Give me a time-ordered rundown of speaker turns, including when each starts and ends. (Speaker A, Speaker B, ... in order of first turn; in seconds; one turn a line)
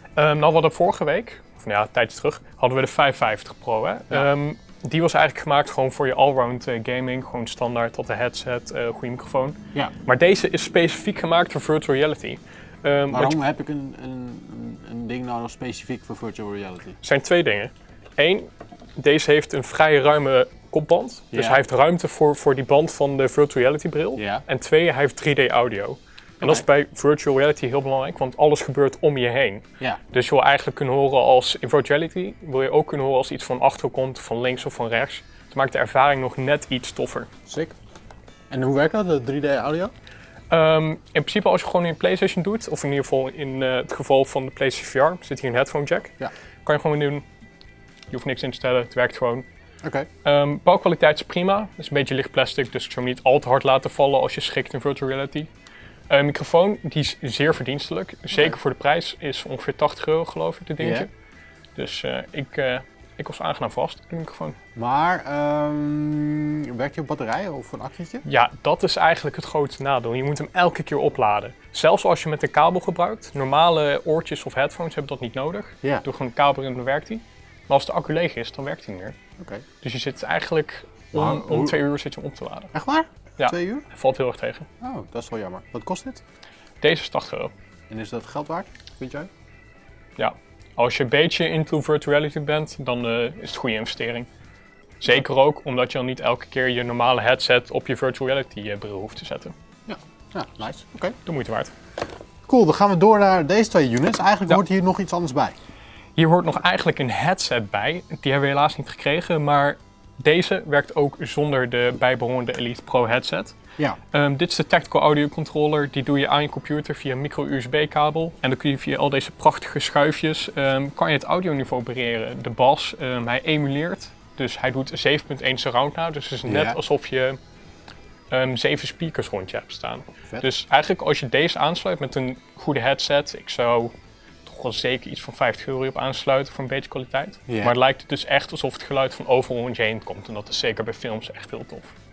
Speaker A: 0.2-13.4
Speaker B: 13.1-17.0
Speaker A: 17.0-37.3
Speaker B: 21.3-21.6
Speaker B: 24.2-24.4
Speaker B: 37.5-37.8
Speaker B: 38.5-39.9
Speaker A: 40.5-47.2
Speaker A: 48.1-49.5
Speaker B: 49.8-50.1
Speaker A: 50.2-55.5
Speaker A: 56.1-61.1
Speaker B: 60.8-61.1
Speaker A: 61.8-64.6
Speaker B: 64.8-68.2
Speaker A: 68.2-79.2
Speaker B: 79.4-79.7
Speaker A: 79.8-82.7
Speaker B: 81.1-81.8
Speaker B: 82.7-83.9
Speaker A: 83.4-84.7
Speaker B: 84.8-86.2
Speaker A: 86.8-87.5
Speaker B: 87.9-89.3
Speaker A: 90.2-94.3
Speaker A: 95.0-99.5
Speaker B: 99.9-101.2
Speaker A: 101.2-101.7
Speaker B: 102.5-105.6
Speaker A: 106.2-113.5
Speaker A: 114.1-127.4
Speaker B: 126.5-126.8
Speaker A: 128.3-133.9
Speaker A: 134.4-141.9
Speaker B: 137.5-137.7